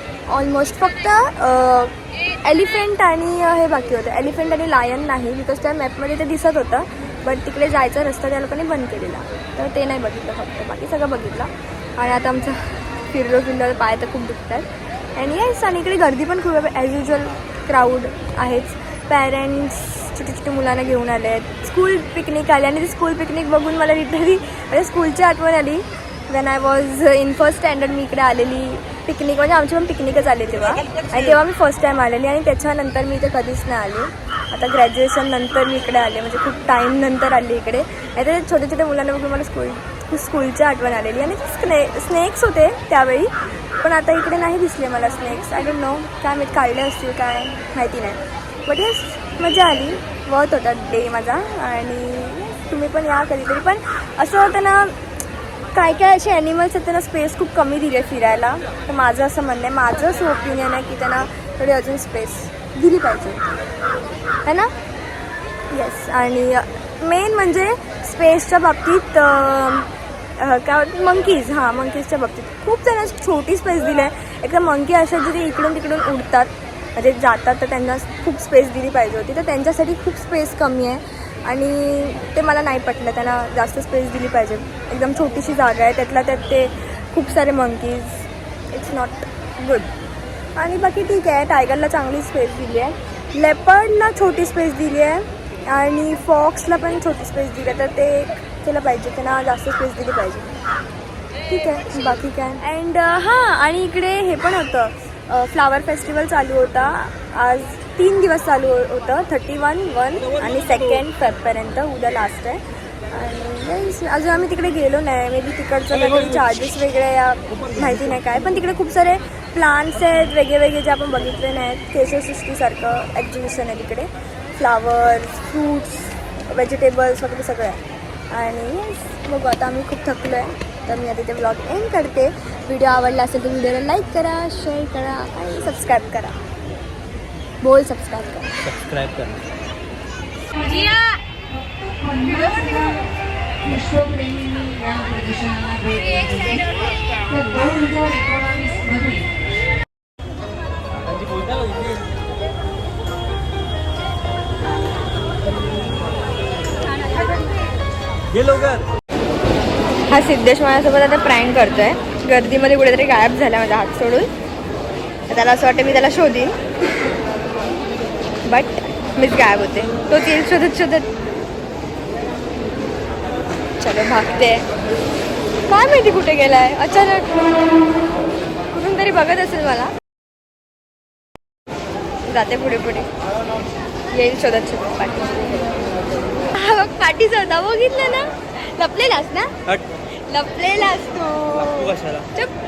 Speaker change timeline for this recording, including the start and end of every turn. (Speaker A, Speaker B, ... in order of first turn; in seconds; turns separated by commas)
Speaker A: 0.3-12.6, Speaker A: 13.1-43.3, Speaker A: 43.8-54.9, Speaker A: 55.7-63.5, Speaker A: 64.4-64.7, Speaker A: 65.7-69.9, Speaker A: 70.4-89.9, Speaker A: 90.6-100.5, Speaker A: 101.5-127.8, Speaker B: 110.2-111.0, Speaker B: 115.9-116.5, Speaker B: 117.5-118.3, Speaker A: 128.3-136.4, Speaker A: 137.6-138.5, Speaker B: 138.6-139.5, Speaker C: 140.7-141.0, Speaker C: 141.7-143.0, Speaker A: 142.0-142.9, Speaker C: 143.7-146.7, Speaker C: 147.3-149.2, Speaker B: 150.9-152.0, Speaker B: 158.3-158.8, Speaker A: 160.1-164.3, Speaker A: 165.3-166.6, Speaker A: 168.5-171.1, Speaker A: 173.8-174.6, Speaker A: 175.7-177.7, Speaker A: 178.7-179.9, Speaker A: 182.2-183.1, Speaker A: 184.1-185.6, Speaker A: 186.5-189.5, Speaker A: 190.3-192.5, Speaker B: 191.5-192.2